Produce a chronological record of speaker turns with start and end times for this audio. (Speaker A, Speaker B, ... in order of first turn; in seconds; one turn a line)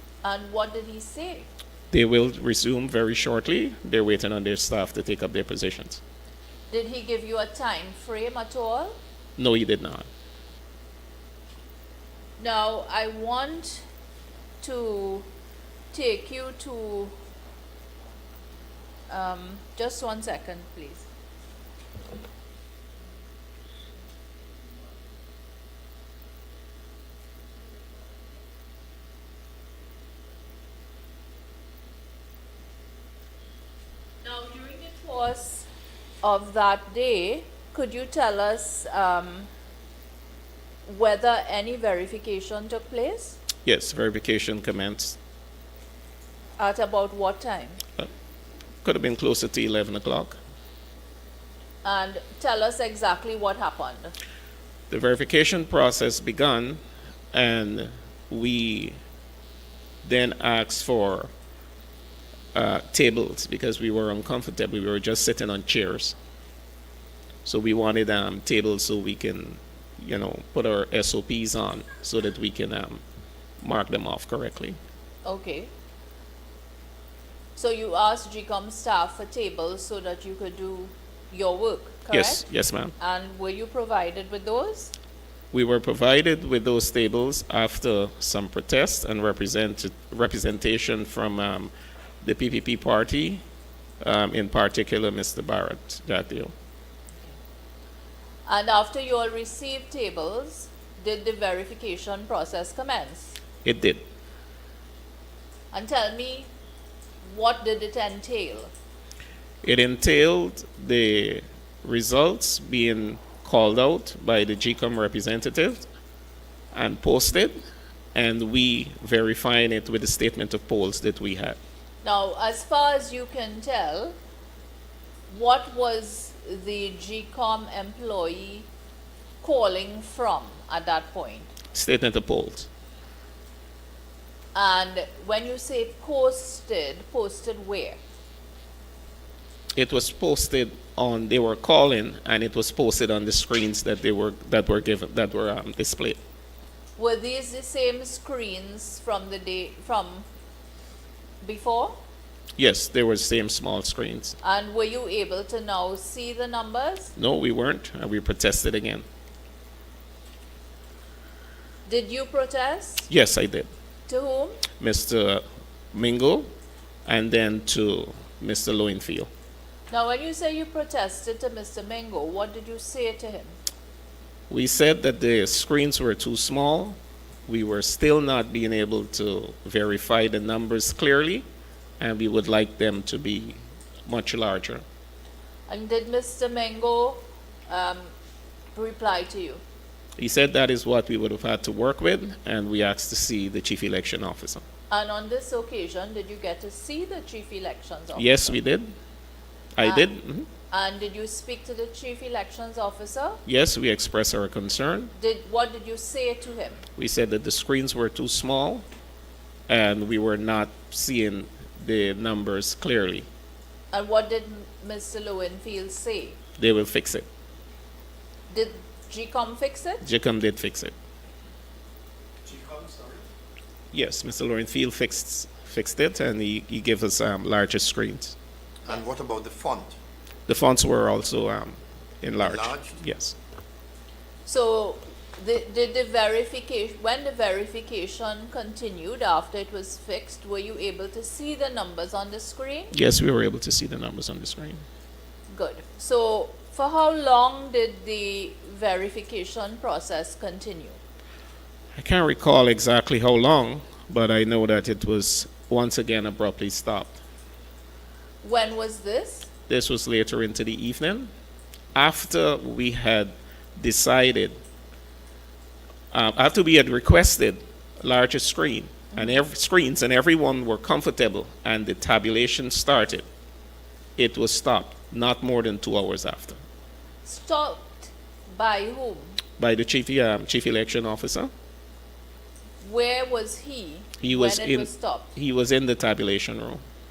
Speaker A: 0.2-1.5
Speaker B: 1.9-6.0
Speaker A: 6.7-9.0
Speaker B: 9.4-10.1
Speaker A: 12.4-13.8
Speaker A: 14.6-15.3
Speaker A: 15.9-17.1
Speaker A: 19.1-21.1
Speaker A: 34.2-35.7
Speaker A: 36.2-39.5
Speaker A: 40.9-43.4
Speaker B: 43.6-45.2
Speaker A: 46.6-47.8
Speaker B: 48.8-50.4
Speaker A: 51.8-54.1
Speaker B: 54.9-56.8
Speaker B: 57.3-59.0
Speaker B: 60.0-61.3
Speaker B: 62.5-66.2
Speaker B: 67.5-73.0
Speaker B: 73.6-74.8
Speaker A: 75.2-75.7
Speaker A: 77.6-82.4
Speaker B: 82.1-83.0
Speaker A: 83.0-84.9
Speaker B: 85.5-91.7
Speaker B: 92.2-93.4
Speaker B: 94.0-96.5
Speaker A: 98.5-103.4
Speaker B: 103.6-104.0
Speaker A: 105.7-106.5
Speaker A: 107.2-108.7
Speaker B: 109.6-115.9
Speaker B: 116.7-117.6
Speaker B: 118.1-121.6
Speaker A: 122.0-124.2
Speaker A: 125.3-128.7
Speaker A: 129.4-131.5
Speaker B: 131.7-132.7
Speaker A: 134.6-138.0
Speaker B: 139.8-146.2
Speaker A: 147.0-150.3
Speaker A: 151.4-152.0
Speaker B: 152.6-154.4
Speaker A: 154.4-157.1
Speaker B: 157.2-159.1
Speaker A: 161.9-163.1
Speaker B: 163.1-163.7
Speaker A: 164.1-164.6
Speaker B: 164.8-166.5
Speaker B: 167.1-169.3
Speaker A: 169.9-173.6
Speaker B: 174.5-181.4
Speaker B: 182.0-184.8
Speaker A: 185.7-188.1
Speaker A: 188.7-189.6
Speaker B: 190.2-194.6
Speaker A: 194.9-198.6
Speaker B: 198.2-198.9
Speaker B: 199.8-200.5
Speaker A: 199.8-200.1
Speaker A: 200.7-203.4
Speaker B: 203.5-205.1
Speaker A: 205.2-206.8
Speaker B: 207.0-208.9
Speaker B: 209.7-213.3
Speaker A: 213.9-216.4
Speaker B: 216.6-217.3
Speaker A: 218.5-220.1
Speaker B: 220.0-220.9
Speaker C: 222.4-223.2
Speaker B: 223.9-228.3
Speaker C: 228.8-229.9
Speaker B: 230.5-233.4
Speaker C: 232.4-233.0
Speaker A: 234.5-242.9
Speaker B: 242.9-244.8
Speaker A: 245.5-251.0
Speaker B: 251.9-257.2
Speaker A: 258.4-259.5
Speaker B: 259.7-261.3
Speaker B: 261.9-264.6
Speaker B: 266.1-273.2
Speaker B: 274.2-276.6
Speaker A: 277.2-279.4
Speaker B: 279.6-281.5
Speaker A: 282.8-285.3
Speaker B: 284.2-286.8